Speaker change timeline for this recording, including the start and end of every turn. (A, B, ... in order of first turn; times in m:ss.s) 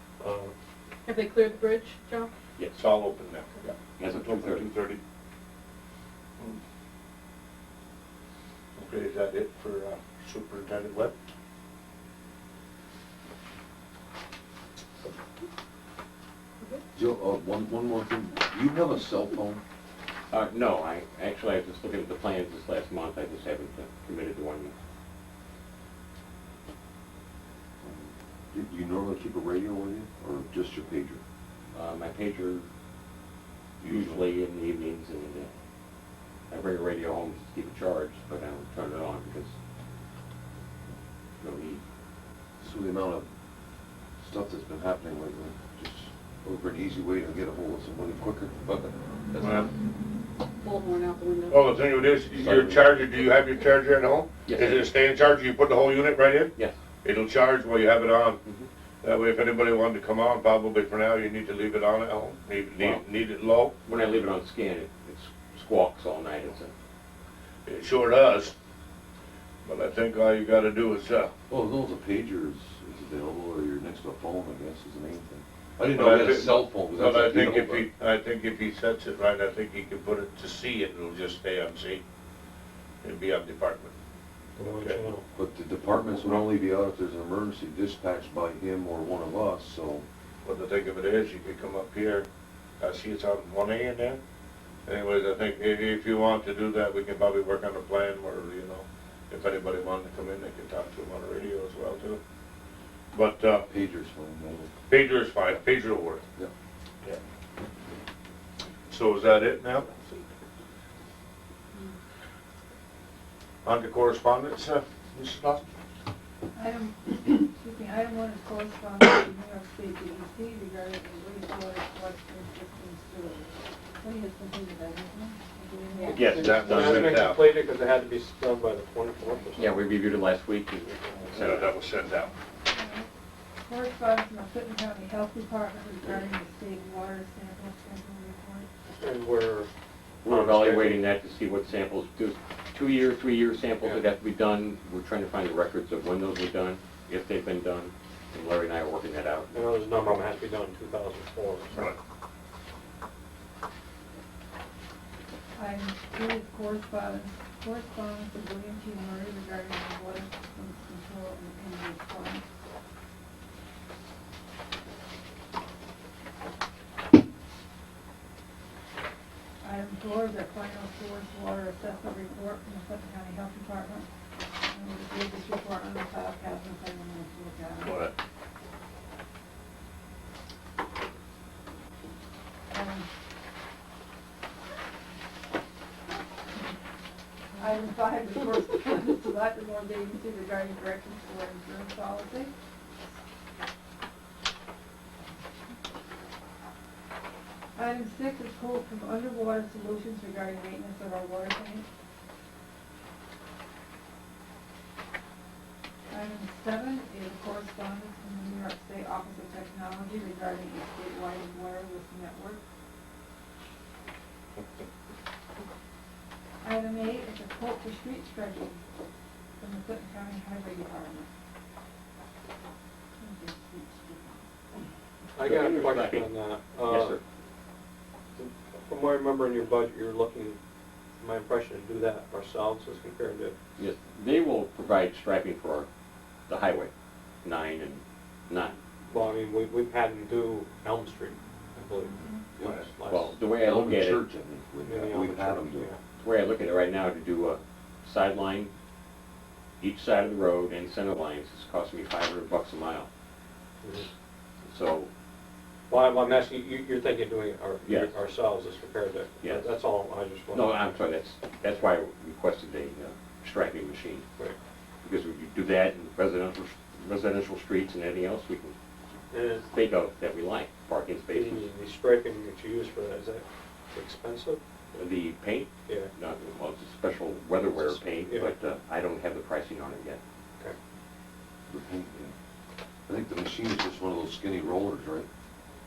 0:00.2-0:00.5 A
0:01.1-0:02.3 B
0:02.8-0:05.0 C
0:04.0-0:04.7 D
0:08.8-0:11.1 C
0:16.9-0:19.6 E
0:20.3-0:24.7 D
0:27.8-0:31.2 E
0:31.7-0:32.6 D
0:33.8-0:34.2 E
0:33.8-0:35.5 D
0:36.5-0:39.5 D
0:41.4-0:41.8 D
0:42.6-0:43.2 E
0:44.2-0:49.7 E
0:49.4-0:49.7 C
0:50.6-0:51.7 B
0:51.5-0:58.4 C
0:52.3-0:53.0 E
0:54.5-0:54.9 D
0:59.0-1:03.8 C
1:03.8-1:06.7 D
1:07.6-1:08.5 C
1:09.6-1:11.3 C
1:11.5-1:17.9 E
1:15.9-1:22.0 C
1:23.0-1:23.9 C
1:24.6-1:25.2 A
1:24.6-1:25.0 C
1:25.3-1:30.0 E
1:30.4-1:32.2 C
1:32.8-1:34.2 C
1:34.8-1:42.2 C
1:43.1-1:43.6 C
1:43.7-1:44.7 E
1:44.9-1:46.2 C
1:48.9-1:50.3 C
1:53.6-1:55.6 C
1:56.5-2:06.2 F
2:06.0-2:07.2 D
2:06.1-2:09.8 A
2:06.2-2:07.5 C
2:09.6-2:11.7 D
2:11.3-2:12.3 C
2:12.7-2:13.1 F
2:13.6-2:18.7 F
2:18.9-2:19.7 A
2:20.2-2:29.6 D
2:20.3-2:21.0 A
2:29.5-2:31.9 A
2:35.5-2:42.4 F
2:49.6-2:54.1 F
2:54.7-2:58.0 F
2:57.8-2:58.1 C
3:02.7-3:03.1 F
3:06.5-3:06.8 F
3:07.6-3:12.5 F
3:17.8-3:21.8 F
3:26.1-3:32.6 F
3:36.6-3:38.8 F
3:39.6-3:41.3 F
3:43.2-3:44.5 F
3:45.4-3:47.2 A
3:45.4-3:47.2 D
3:48.4-3:50.6 A
3:51.2-3:53.5 A
3:53.8-3:55.9 D
3:56.5-3:56.9 D
3:57.4-3:58.8 D
3:59.1-4:03.3 A
4:03.1-4:04.2 D
4:03.6-4:05.9 E
4:04.8-4:06.0 A
4:06.2-4:08.7 D
4:09.8-4:13.1 D
4:13.8-4:14.1 A
4:14.6-4:15.1 D
4:15.9-4:20.8 A
4:17.8-4:18.1 D
4:19.4-4:19.7 D
4:20.5-4:24.2 D
4:25.0-4:28.7 D
4:29.3-4:29.7 A
4:29.7-4:31.6 D
4:31.3-4:34.6 A
4:34.9-4:40.2 D
4:37.7-4:38.5 A
4:41.7-4:42.3 E
4:43.1-4:45.3 E